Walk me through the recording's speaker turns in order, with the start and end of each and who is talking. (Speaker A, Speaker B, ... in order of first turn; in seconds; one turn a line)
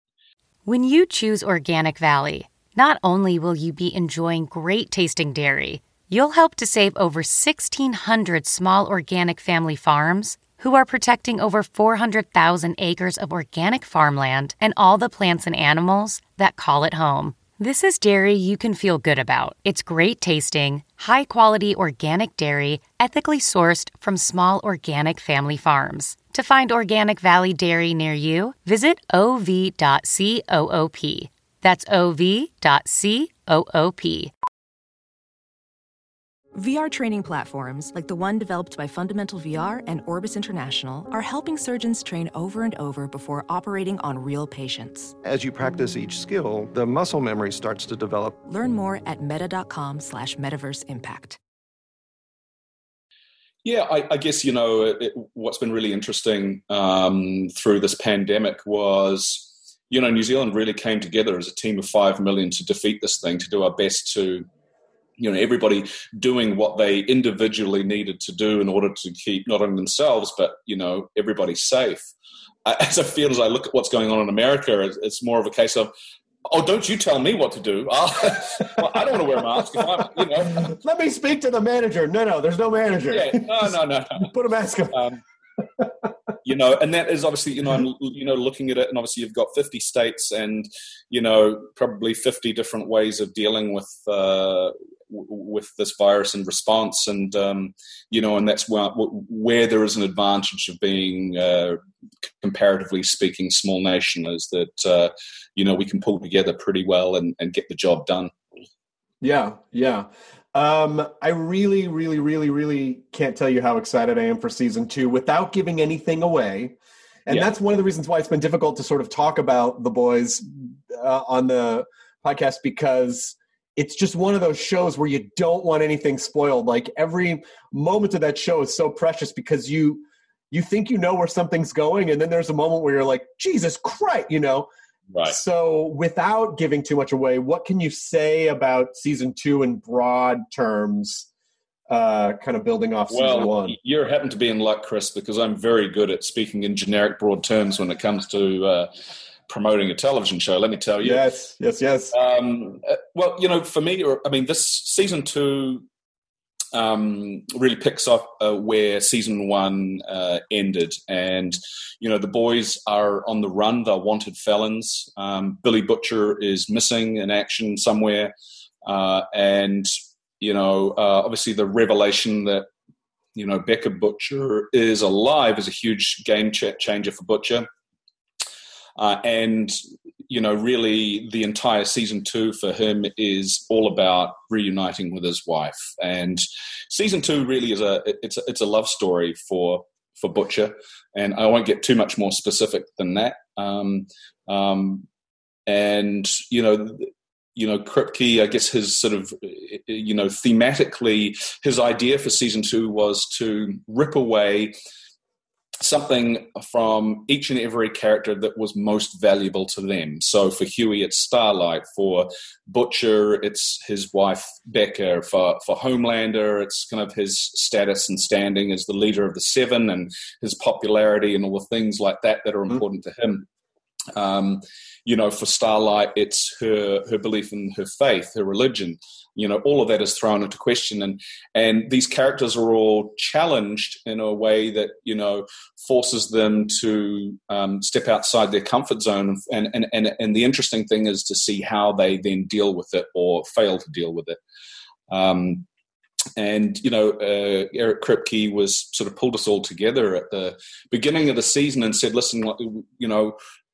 Speaker A: 0.7-34.3
Speaker B: 36.5-45.1
Speaker C: 45.2-48.4
Speaker B: 48.5-51.4
Speaker D: 53.6-64.5
Speaker D: 65.2-72.1
Speaker D: 72.7-75.9
Speaker D: 76.5-80.7
Speaker E: 79.6-85.0
Speaker D: 83.1-84.3
Speaker D: 84.9-85.2
Speaker E: 85.6-86.1
Speaker D: 86.4-101.8
Speaker D: 102.4-108.3
Speaker E: 109.2-116.8
Speaker E: 117.3-134.7
Speaker D: 135.1-135.4
Speaker E: 135.2-141.3
Speaker E: 141.9-143.8
Speaker D: 143.1-148.9
Speaker D: 149.5-151.5
Speaker E: 151.0-152.2
Speaker D: 152.1-155.8
Speaker D: 156.7-168.3
Speaker D: 168.9-172.7
Speaker D: 173.3-177.7
Speaker D: 179.0-179.8
Speaker D: 180.3-195.1
Speaker D: 195.7-204.7
Speaker D: 205.8-223.5
Speaker D: 224.2-244.4
Speaker D: 245.1-245.7
Speaker D: 246.4-253.4